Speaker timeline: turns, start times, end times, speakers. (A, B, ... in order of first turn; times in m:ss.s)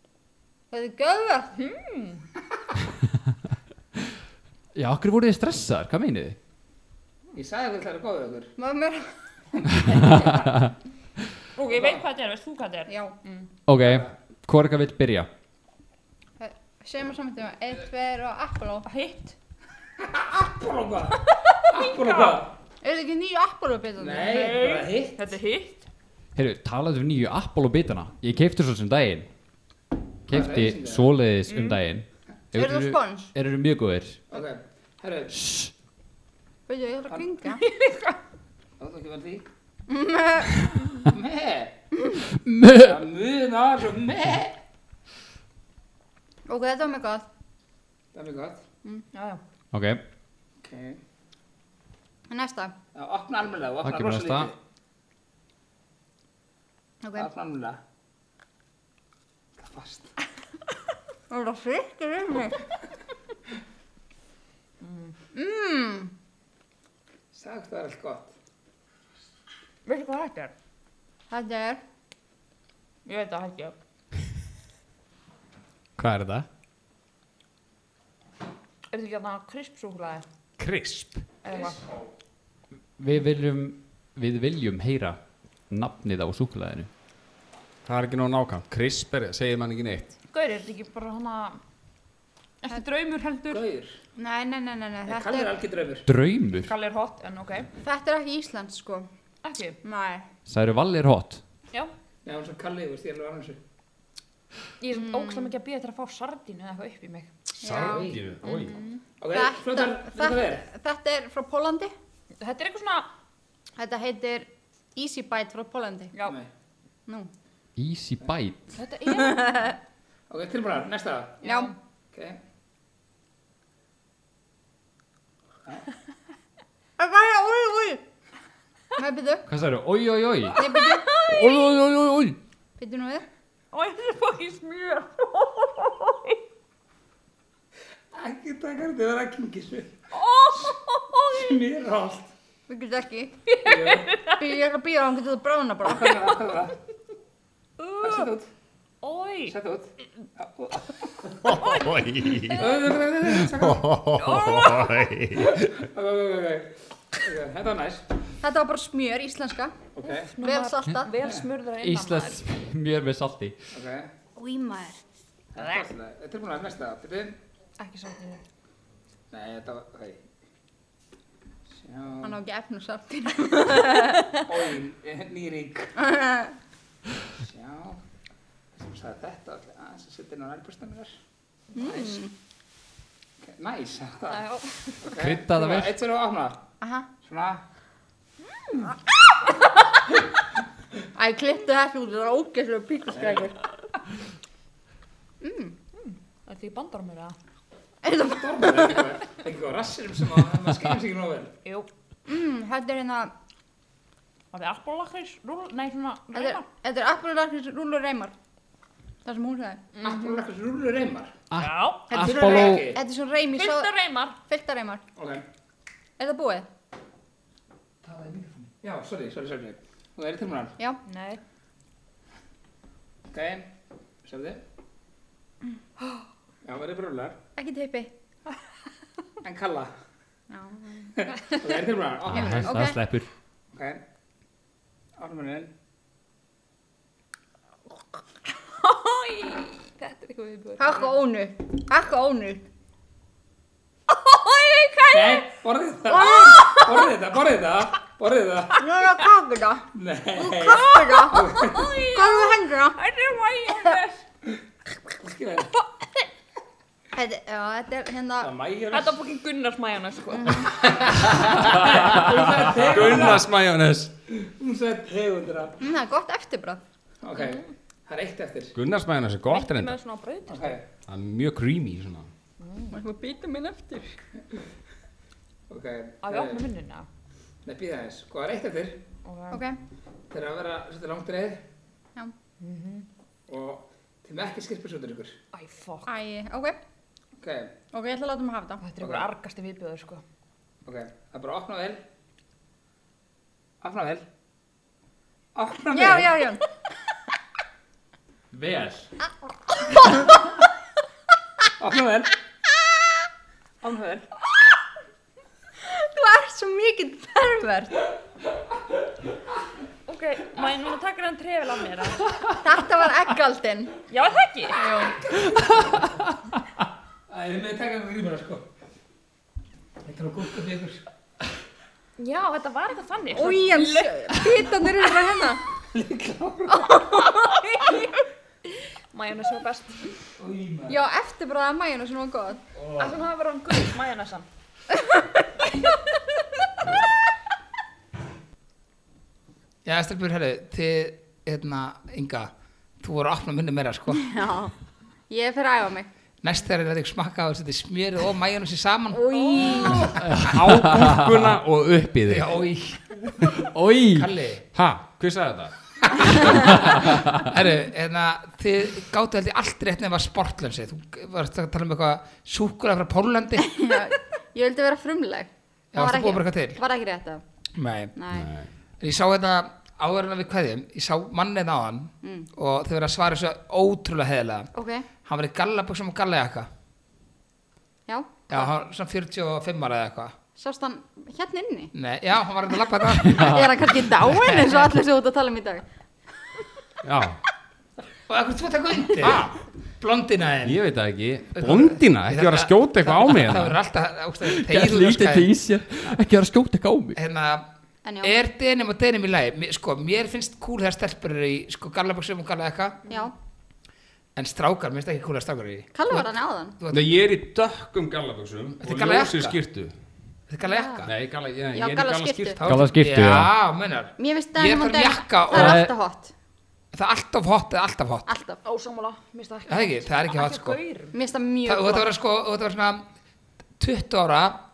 0:00.7-0:01.5 A
0:01.6-0:02.2 B
0:04.7-0:06.4 C
0:07.3-0:08.5 D
0:08.6-0:09.0 A
0:09.7-0:10.6 A
0:09.9-0:10.7 C
0:11.6-0:13.5 B
0:11.7-0:12.0 D
0:12.9-0:13.1 A
0:13.7-0:15.3 C
0:13.8-0:14.1 D
0:16.4-0:18.8 A
0:18.8-0:19.4 B
0:20.0-0:21.2 D
0:21.2-0:22.4 B
0:21.7-0:22.5 D
0:22.8-0:24.6 A
0:24.0-0:25.2 D
0:24.2-0:25.8 B
0:26.3-0:29.3 C
0:30.3-0:34.2 C
0:30.3-0:31.1 D
0:31.5-0:31.8 B
0:32.5-0:33.3 A
0:34.3-0:35.3 D
0:35.3-0:35.7 C
0:36.7-0:37.6 A
0:37.5-0:38.1 B
0:38.8-0:39.4 D
0:39.9-0:40.8 A
0:41.0-0:41.7 D
0:42.4-0:43.0 C
0:42.7-0:44.6 D
0:46.5-0:47.2 A
0:48.1-0:48.6 D
0:49.1-0:49.4 B
0:49.7-0:50.0 C
0:50.6-0:51.0 D
0:52.3-0:52.7 A
0:52.9-0:54.5 D
0:53.8-0:54.5 C
0:57.0-0:57.3 A
0:57.1-0:57.8 D
0:59.6-1:00.1 D
1:01.3-1:02.6 A
1:04.8-1:05.1 B
1:05.3-1:06.1 A
1:07.3-1:08.3 D
1:09.8-1:10.5 B
1:11.3-1:11.8 A
1:13.0-1:13.7 B
1:16.0-1:16.5 E
1:18.9-1:20.2 B
1:20.6-1:21.2 E
1:21.4-1:21.8 B
1:23.0-1:25.2 C
1:25.7-1:26.9 C
1:27.8-1:30.1 E
1:30.3-1:31.6 B
1:32.6-1:33.6 B
1:33.5-1:34.0 D
1:34.2-1:35.5 A
1:35.0-1:36.1 D
1:36.0-1:36.7 C
1:36.6-1:37.7 B
1:37.8-1:39.1 A
1:39.4-1:39.8 B
1:39.8-1:40.3 A
1:40.5-1:41.4 C
1:42.2-1:43.6 D
1:44.8-1:47.3 B
1:45.0-1:45.4 A
1:47.6-1:48.8 E
1:47.6-1:51.9 A
1:47.7-1:48.2 D
1:49.2-1:50.7 D
1:52.4-1:53.1 B
1:53.8-1:56.1 A
1:56.2-1:56.5 D
1:57.8-1:58.8 C
1:58.8-1:59.7 B
1:59.1-1:59.8 A
2:00.3-2:01.5 D
2:01.4-2:01.7 A
2:01.4-2:01.7 B
2:02.1-2:02.4 D
2:07.0-2:08.0 A
2:09.0-2:09.4 A
2:09.5-2:10.6 C
2:10.5-2:11.1 A
2:10.5-2:11.7 B
2:11.4-2:12.3 C
2:11.4-2:12.1 E
2:12.8-2:13.2 A
2:13.7-2:16.4 B
2:18.1-2:20.0 D
2:20.1-2:21.6 B
2:21.3-2:22.3 D
2:22.7-2:23.5 A
2:23.5-2:24.5 B
2:23.6-2:24.2 D
2:24.2-2:26.3 A
2:25.9-2:26.8 D
2:27.8-2:28.3 B
2:28.0-2:28.5 D
2:29.0-2:29.5 B
2:29.5-2:29.9 D
2:30.4-2:31.5 D
2:31.4-2:32.5 B
2:31.4-2:32.7 E
2:32.5-2:33.9 D
2:33.4-2:35.7 E
2:34.1-2:35.1 B
2:35.4-2:38.0 D
2:38.4-2:39.8 A
2:40.0-2:40.3 D
2:40.0-2:42.4 B
2:40.4-2:41.1 A
2:41.8-2:43.6 C
2:43.7-2:44.1 D
2:44.4-2:45.0 A
2:45.5-2:47.4 D
2:47.8-2:48.4 B
2:49.3-2:50.2 D
2:51.8-2:52.4 D
2:52.2-2:54.4 A
2:54.4-2:55.9 D
2:56.0-2:56.5 A
2:57.4-2:58.0 D
2:58.7-3:01.2 D
3:01.7-3:02.3 A
3:01.8-3:02.2 B
3:03.4-3:04.4 D
3:04.3-3:05.0 B
3:05.0-3:06.6 D
3:05.2-3:05.9 C
3:06.8-3:07.1 A
3:07.2-3:07.6 D
3:11.1-3:13.6 A
3:13.1-3:13.4 D
3:15.4-3:15.8 A
3:16.0-3:17.4 B
3:18.0-3:18.9 A
3:18.3-3:21.5 D
3:22.2-3:23.3 A
3:24.5-3:26.6 B
3:26.3-3:28.3 A
3:29.2-3:30.1 A
3:29.9-3:30.3 B
3:30.0-3:31.3 D
3:31.5-3:32.9 C
3:31.6-3:32.1 B
3:32.1-3:33.9 A
3:32.1-3:33.0 D
3:33.5-3:34.4 B
3:34.4-3:35.0 A
3:35.2-3:35.4 D
3:36.2-3:36.6 A
3:38.0-3:40.7 D
3:41.0-3:41.4 B
3:43.3-3:43.7 D
3:44.2-3:44.6 D
3:46.6-3:47.4 D
3:47.6-3:48.1 A
3:49.4-3:49.9 D
3:50.5-3:51.5 A
3:51.2-3:52.7 D
3:52.3-3:53.3 C
3:52.3-3:53.0 A
3:53.7-3:54.0 D
3:55.2-3:55.7 D
3:58.8-4:01.1 B
4:00.8-4:02.6 A
4:04.1-4:05.4 B
4:05.1-4:08.8 D
4:06.1-4:07.0 A
4:06.4-4:06.8 B
4:08.8-4:09.8 A
4:09.9-4:11.9 D
4:10.4-4:13.0 A
4:10.7-4:14.2 B
4:15.2-4:15.7 D
4:17.1-4:18.5 A
4:18.4-4:19.1 D
4:18.9-4:22.2 B
4:20.3-4:20.7 A
4:20.7-4:23.5 D
4:22.7-4:24.1 E
4:24.3-4:25.8 D
4:25.8-4:26.8 A
4:27.2-4:28.7 D
4:27.4-4:27.7 B
4:28.7-4:30.0 E
4:29.5-4:30.8 B
4:30.5-4:30.8 D
4:31.1-4:32.3 E
4:32.6-4:33.0 B
4:32.9-4:34.2 A
4:35.7-4:36.6 D
4:36.2-4:37.1 B
4:37.6-4:39.0 D
4:39.2-4:39.6 B
4:39.5-4:39.8 A
4:40.3-4:41.6 D
4:42.6-4:43.1 B
4:43.5-4:45.4 D
4:45.5-4:46.1 B
4:46.0-4:46.8 A
4:47.4-4:47.7 D
4:47.9-4:48.8 A
4:48.8-4:50.2 B
4:49.0-4:49.3 D
4:50.8-4:52.0 D
4:53.8-4:54.2 D
4:55.5-4:56.4 D
4:55.9-4:56.6 A
4:58.5-4:59.1 C
4:59.9-5:00.3 A
5:01.8-5:02.3 D
5:03.8-5:04.2 D
5:05.8-5:08.0 A
5:10.1-5:12.2 B
5:12.6-5:13.9 A
5:14.1-5:14.8 B
5:14.8-5:15.2 A
5:17.3-5:18.6 D
5:20.0-5:21.0 D
5:22.2-5:24.7 B
5:23.3-5:25.6 A
5:25.9-5:27.1 D
5:27.3-5:27.7 B
5:29.1-5:30.1 B
5:30.4-5:31.0 D
5:30.9-5:32.6 A
5:32.8-5:33.1 D
5:32.9-5:34.5 B
5:39.8-5:44.2 D
5:44.1-5:44.7 A
5:45.3-5:46.1 A
5:46.4-5:50.4 D
5:49.1-5:50.2 A
5:49.3-5:50.1 B
5:50.2-5:51.5 C
5:50.3-5:52.5 E
5:52.3-5:53.5 D
5:53.6-5:54.3 C
5:54.1-5:54.6 D
5:54.7-5:55.7 E
5:56.0-6:03.7 D
5:56.9-5:57.2 C
6:03.6-6:07.4 A
6:05.9-6:06.8 D
6:07.8-6:08.1 D
6:08.2-6:08.5 A
6:08.3-6:08.7 E
6:09.0-6:16.7 D
6:12.2-6:12.5 A
6:14.7-6:15.1 A
6:18.1-6:18.7 A
6:18.5-6:20.3 D
6:20.6-6:21.9 A
6:21.9-6:23.8 D
6:23.2-6:25.8 A
6:23.3-6:23.7 C
6:24.3-6:24.9 D
6:27.0-6:27.4 E
6:28.3-6:30.8 D
6:29.2-6:29.5 E
6:30.6-6:33.8 E
6:31.5-6:35.5 D
6:34.4-6:37.2 C
6:37.1-6:37.6 D
6:38.0-6:38.4 A
6:38.2-6:43.0 D
6:43.1-6:43.3 A
6:44.3-6:47.0 D
6:45.9-6:46.8 A
6:46.9-6:49.9 E
6:48.8-6:49.6 D
6:50.5-6:51.1 D
6:50.6-6:51.1 A
6:51.0-6:52.8 E
6:51.7-6:52.6 A
6:52.6-6:55.9 D
6:52.6-6:53.5 C
6:54.2-6:56.3 A
6:55.5-6:55.9 C
6:56.9-6:58.3 D
6:58.3-6:58.6 A
6:58.6-7:01.1 B
6:59.7-7:00.8 D
7:01.1-7:02.1 A
7:01.6-7:03.0 D
7:03.8-7:04.6 D